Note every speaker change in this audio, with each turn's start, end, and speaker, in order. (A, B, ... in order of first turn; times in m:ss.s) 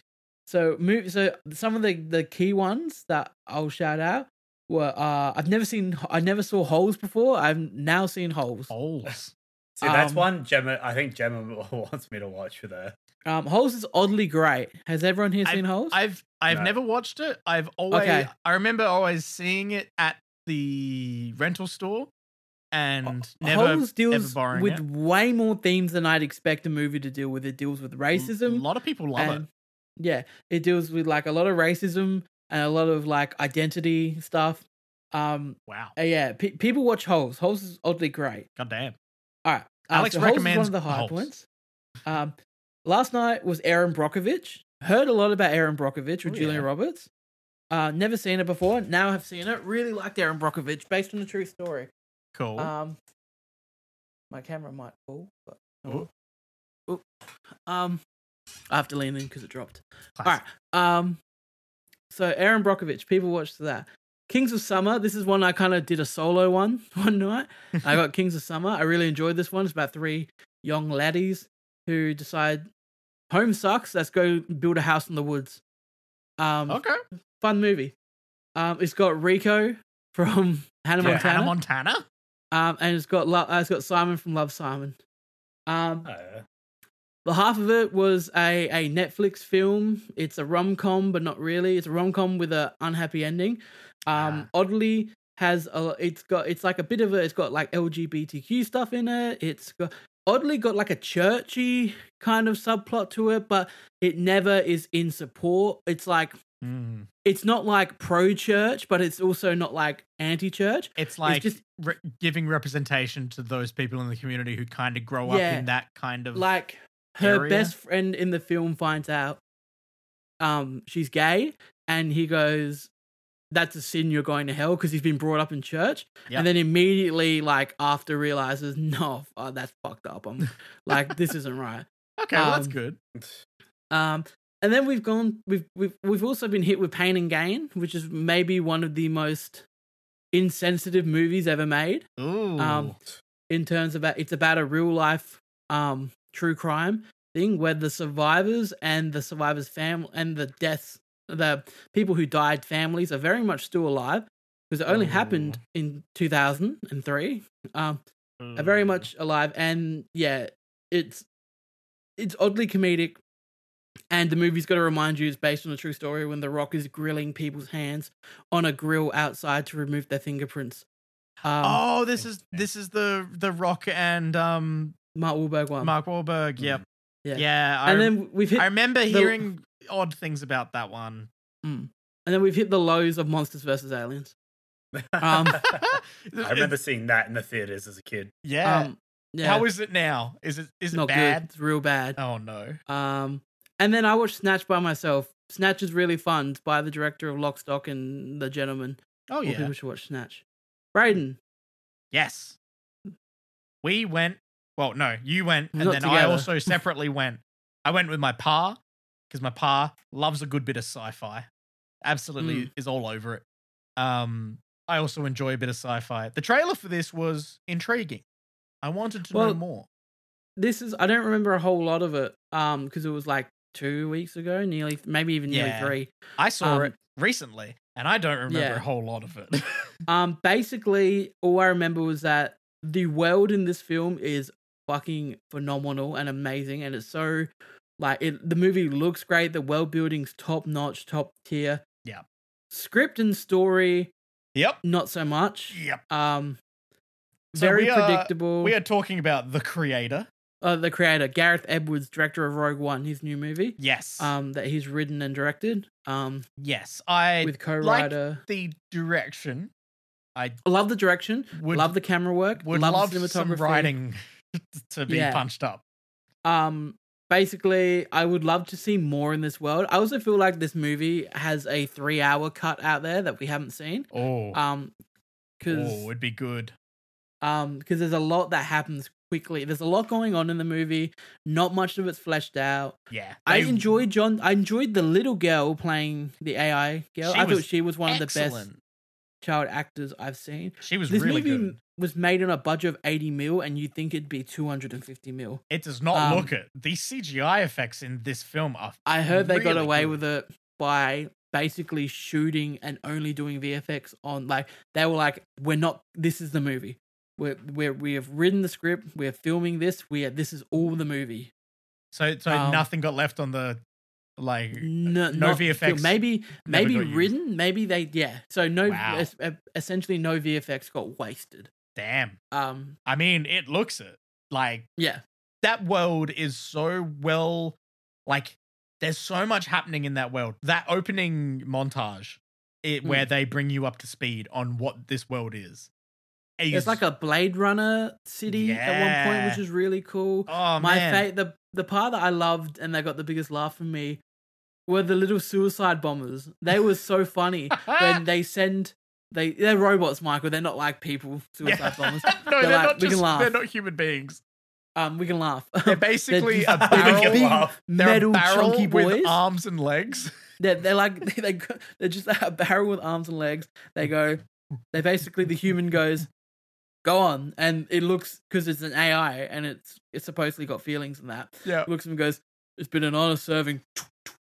0:00.5-0:08.7 A
0:08.7-0:09.3 B
0:09.8-0:12.9 C
0:09.8-0:10.3 A
0:13.3-0:16.0 A
0:15.4-0:22.1 B
0:17.9-0:18.3 A
0:22.7-0:24.8 B
0:23.4-0:28.6 A
0:28.1-0:29.4 B
0:29.2-0:29.5 A
0:30.0-0:38.5 A
0:35.7-0:35.9 B
0:38.6-0:39.0 B
0:39.5-0:41.4 A
0:39.9-0:41.3 B
0:42.1-0:47.1 A
0:46.2-0:46.7 B
0:47.7-0:51.9 A
0:52.4-0:52.7 B
0:52.6-0:53.0 A
0:54.3-0:56.1 A
0:57.7-0:58.0 A
0:58.7-1:01.2 A
1:02.1-1:12.7 A
1:13.3-1:15.6 A
1:16.4-1:16.8 A
1:16.7-1:17.0 B
1:17.4-1:17.9 A
1:18.6-1:21.5 A
1:21.0-1:21.2 C
1:21.0-1:22.0 B
1:22.5-1:25.0 A
1:25.7-1:26.1 A
1:26.1-1:26.4 C
1:27.2-1:46.4 A
1:34.1-1:34.4 B
1:46.6-1:47.1 B
1:47.2-1:51.6 A
1:51.0-1:56.5 B
1:55.2-1:55.7 A
1:56.4-1:59.4 A
1:57.2-1:57.7 B
2:00.4-2:02.9 A
2:03.5-2:12.8 A
2:12.2-2:13.0 B
2:13.9-2:19.6 A
2:20.3-2:22.1 A
2:22.2-2:23.0 B
2:22.6-2:23.0 A
2:23.5-2:38.0 A
2:34.9-2:35.6 B
2:38.4-2:39.1 B
2:38.6-2:41.3 A
2:42.2-2:43.2 A
2:44.1-2:50.9 A
2:51.4-2:51.8 A
2:51.6-2:55.0 B
2:52.2-2:52.6 C
2:55.2-2:55.9 A
2:55.8-2:56.8 B
2:57.2-2:59.4 A
2:57.4-3:01.3 B
3:01.6-3:04.4 A
3:05.0-3:08.3 C
3:05.2-3:05.7 A
3:05.6-3:06.7 B
3:08.4-3:08.9 B
3:08.6-3:09.7 A
3:09.4-3:11.5 B
3:10.9-3:12.2 A
3:12.2-3:12.8 B
3:12.9-3:20.4 A
3:19.3-3:19.7 B
3:21.0-3:21.4 A
3:22.1-3:22.6 B
3:23.8-3:28.8 B
3:25.8-3:26.8 A
3:29.3-3:31.5 B
3:32.0-3:33.4 B
3:32.4-3:32.7 A
3:34.0-3:38.2 B
3:38.8-3:39.9 B
3:39.3-3:39.6 A
3:40.6-3:46.9 A
3:45.5-3:49.9 B
3:48.5-3:48.8 A
3:50.1-4:01.8 A
4:02.7-4:04.1 A
4:04.8-4:06.6 A
4:05.7-4:06.0 B
4:07.5-4:08.7 A
4:07.6-4:10.3 B
4:10.6-4:16.5 A
4:13.8-4:14.3 B
4:16.6-4:19.7 B
4:17.4-4:18.4 A
4:20.6-4:23.9 A
4:21.5-4:21.9 B
4:22.6-4:25.8 B
4:25.1-4:25.4 A
4:26.4-4:34.9 A
4:34.1-4:34.6 B
4:35.6-4:36.1 A
4:35.7-4:36.7 B
4:37.4-4:48.7 A
4:43.1-4:44.0 B
4:47.2-4:48.8 B
4:49.4-4:55.6 A
4:50.8-4:51.7 B
4:55.7-5:00.2 B
4:56.1-4:56.5 A
4:59.1-5:11.5 A
5:12.1-5:13.8 B
5:12.5-5:12.9 A
5:14.4-5:17.3 B
5:14.8-5:21.7 A
5:18.9-5:19.3 B
5:22.0-5:22.4 B
5:22.5-5:23.0 A
5:23.1-5:24.9 B
5:25.6-5:35.9 B
5:33.0-5:33.3 A
5:36.6-5:37.0 B
5:36.7-5:44.2 A
5:38.5-5:39.6 B
5:40.5-5:41.3 B
5:44.9-5:53.6 A
5:47.8-5:48.1 B
5:51.6-5:54.4 B
5:55.0-5:59.4 A
5:55.9-6:00.3 B
5:56.8-5:57.8 C
6:00.6-6:06.3 A
6:07.0-6:14.1 A
6:11.6-6:11.9 B